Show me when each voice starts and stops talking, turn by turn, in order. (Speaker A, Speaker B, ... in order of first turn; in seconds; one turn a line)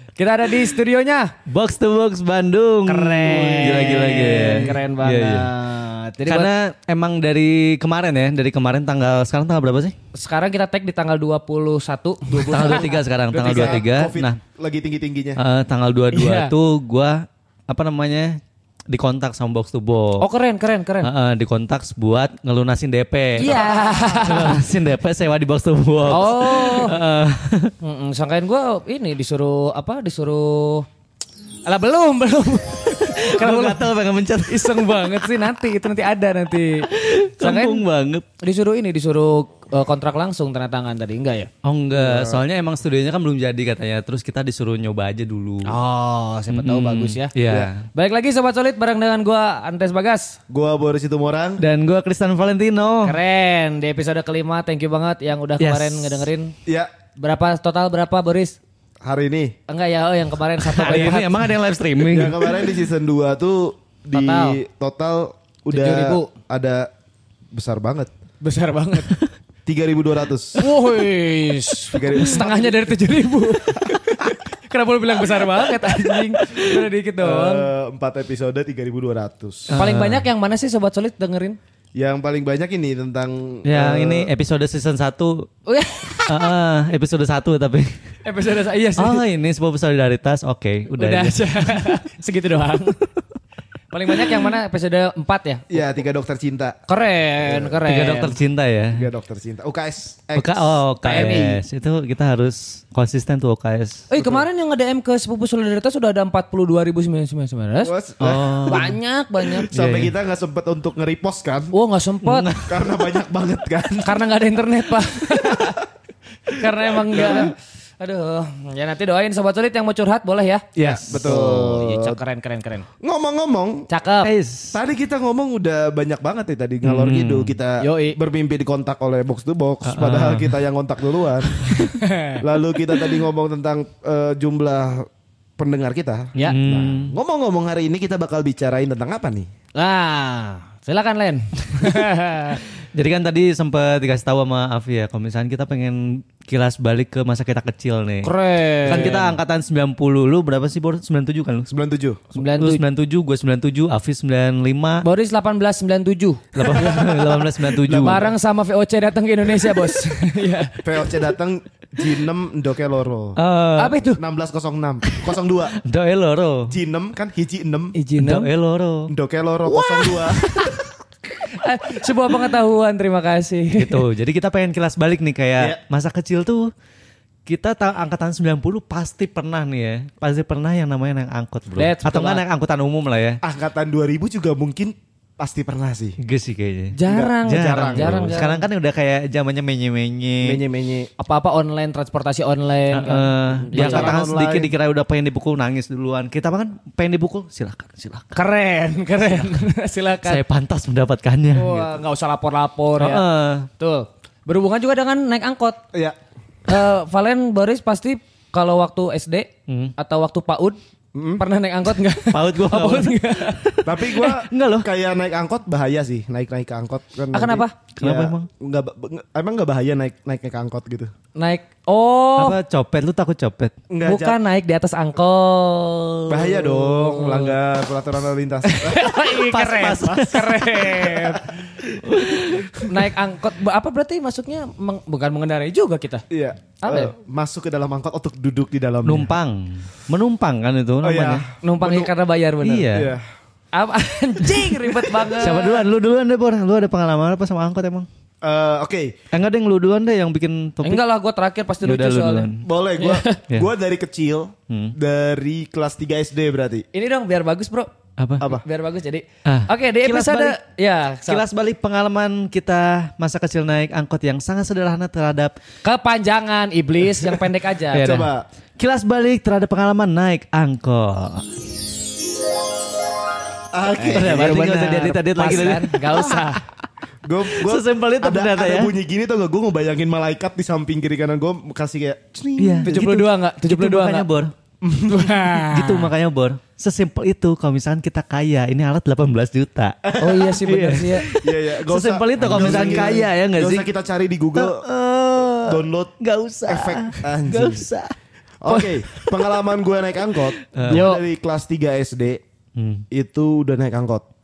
Speaker A: 0.2-1.3
Speaker B: 1.5-5.5
Speaker A: 2.9-6.5
Speaker B: 6.3-10.0
Speaker A: 10.1-12.9
Speaker C: 12.3-15.4
Speaker B: 12.5-14.4
Speaker B: 15.4-20.2
Speaker A: 16.1-16.5
Speaker A: 20.2-21.1
Speaker B: 21.0-23.6
Speaker A: 23.4-24.6
Speaker C: 23.4-24.6
Speaker B: 24.2-27.7
Speaker A: 26.1-26.9
Speaker A: 27.8-30.9
Speaker A: 31.7-33.9
Speaker B: 33.0-35.4
Speaker A: 34.5-36.9
Speaker B: 36.9-38.3
Speaker A: 37.4-37.9
Speaker A: 38.4-41.5
Speaker B: 41.6-45.7
Speaker C: 42.0-42.4
Speaker A: 45.6-47.3
Speaker B: 46.5-47.9
Speaker A: 47.9-50.4
Speaker C: 50.5-51.6
Speaker B: 51.6-53.2
Speaker A: 53.0-56.5
Speaker B: 55.6-56.3
Speaker A: 57.2-58.6
Speaker C: 59.0-59.6
Speaker A: 59.7-61.5
Speaker B: 60.6-62.5
Speaker C: 62.1-66.9
Speaker A: 64.1-64.6
Speaker A: 65.7-66.3
Speaker C: 67.5-68.1
Speaker A: 68.4-69.2
Speaker C: 69.7-70.6
Speaker A: 70.6-77.7
Speaker C: 71.9-72.8
Speaker B: 75.9-76.8
Speaker C: 77.2-79.8
Speaker B: 79.7-80.3
Speaker A: 79.8-81.6
Speaker C: 82.0-84.3
Speaker B: 83.7-85.5
Speaker A: 85.7-86.5
Speaker B: 86.3-88.0
Speaker A: 88.2-89.2
Speaker B: 89.0-92.0
Speaker A: 91.0-93.0
Speaker A: 93.9-95.9
Speaker C: 95.7-96.8
Speaker A: 96.9-98.4
Speaker C: 97.5-97.8
Speaker B: 97.8-99.1
Speaker C: 98.9-101.6
Speaker B: 100.4-104.0
Speaker A: 101.0-101.5
Speaker A: 104.1-107.9
Speaker C: 104.2-104.5
Speaker C: 107.8-108.8
Speaker B: 108.2-109.0
Speaker A: 108.7-109.7
Speaker C: 109.7-111.7
Speaker B: 109.7-110.1
Speaker A: 111.7-112.5
Speaker B: 112.2-112.8
Speaker C: 112.6-114.3
Speaker A: 114.0-115.8
Speaker C: 115.3-115.8
Speaker A: 116.5-122.9
Speaker C: 117.0-117.5
Speaker C: 120.8-122.2
Speaker B: 120.8-121.4
Speaker C: 123.0-123.9
Speaker A: 123.9-124.3
Speaker B: 124.2-124.8
Speaker C: 124.7-131.7
Speaker B: 126.8-127.6
Speaker A: 127.8-128.2
Speaker B: 129.8-130.6
Speaker A: 131.8-132.4
Speaker C: 132.4-139.5
Speaker B: 136.4-137.2
Speaker A: 139.8-142.6
Speaker B: 142.6-148.3
Speaker A: 148.2-149.2
Speaker B: 148.8-151.7
Speaker C: 148.9-149.4
Speaker C: 151.7-152.3
Speaker A: 152.3-152.8
Speaker B: 152.6-155.1
Speaker A: 155.0-157.3
Speaker B: 156.6-158.3
Speaker C: 156.7-158.3
Speaker A: 157.9-160.8
Speaker C: 160.8-163.4
Speaker B: 163.4-164.0
Speaker A: 163.8-164.2
Speaker C: 164.1-165.8
Speaker B: 165.1-166.7
Speaker C: 166.7-167.9
Speaker A: 167.9-168.5
Speaker B: 168.2-169.1
Speaker C: 169.1-170.5
Speaker A: 169.7-170.8
Speaker A: 171.4-174.0
Speaker B: 173.8-176.7
Speaker B: 177.5-183.4
Speaker A: 181.8-182.4
Speaker C: 183.4-186.2
Speaker B: 186.2-190.6
Speaker A: 186.9-188.7
Speaker C: 187.1-188.5
Speaker C: 190.4-191.1
Speaker A: 191.2-194.1
Speaker B: 192.9-198.4
Speaker C: 193.5-194.7
Speaker A: 198.3-200.4
Speaker B: 199.2-199.6
Speaker B: 200.2-201.9
Speaker A: 201.6-203.2
Speaker B: 203.0-203.7
Speaker A: 203.8-205.8
Speaker A: 206.7-210.8
Speaker B: 209.7-209.9
Speaker C: 211.2-211.4
Speaker A: 211.4-213.9
Speaker B: 212.3-214.9
Speaker C: 213.8-221.1
Speaker A: 217.3-217.8
Speaker B: 218.0-218.5
Speaker A: 221.4-222.6
Speaker B: 222.4-223.7
Speaker C: 223.9-224.4
Speaker A: 224.0-227.5
Speaker C: 226.3-229.0
Speaker A: 228.6-231.6
Speaker B: 229.2-231.4
Speaker B: 231.9-232.9
Speaker A: 232.9-236.2
Speaker C: 236.3-239.3
Speaker A: 236.8-237.1
Speaker B: 239.1-241.5
Speaker C: 241.0-242.1
Speaker A: 241.6-242.9
Speaker B: 242.6-243.2
Speaker C: 242.9-243.3
Speaker A: 243.7-245.8
Speaker B: 245.4-248.1
Speaker C: 248.4-249.2
Speaker B: 249.3-251.0
Speaker A: 250.8-253.4
Speaker B: 251.8-252.7
Speaker C: 252.6-256.9
Speaker B: 254.7-254.9
Speaker A: 256.9-257.9
Speaker B: 258.2-258.5
Speaker A: 258.4-261.4
Speaker B: 259.4-260.6
Speaker B: 261.3-265.6
Speaker A: 265.8-268.1
Speaker B: 267.9-271.6
Speaker C: 267.9-268.4
Speaker C: 273.7-274.6
Speaker A: 274.0-276.6
Speaker B: 274.1-276.6
Speaker C: 277.2-283.2
Speaker B: 277.5-278.9
Speaker B: 282.6-284.5
Speaker A: 282.9-284.3
Speaker C: 284.8-285.5
Speaker A: 285.1-286.1
Speaker B: 285.6-293.9
Speaker C: 290.1-290.6
Speaker A: 290.2-291.3
Speaker C: 291.3-294.9
Speaker A: 292.5-293.2
Speaker B: 294.6-298.1
Speaker C: 295.6-296.2
Speaker C: 296.7-297.9
Speaker C: 298.6-302.4
Speaker B: 298.7-299.5
Speaker B: 300.4-301.1
Speaker A: 300.9-301.2
Speaker B: 302.8-303.0
Speaker C: 303.1-304.2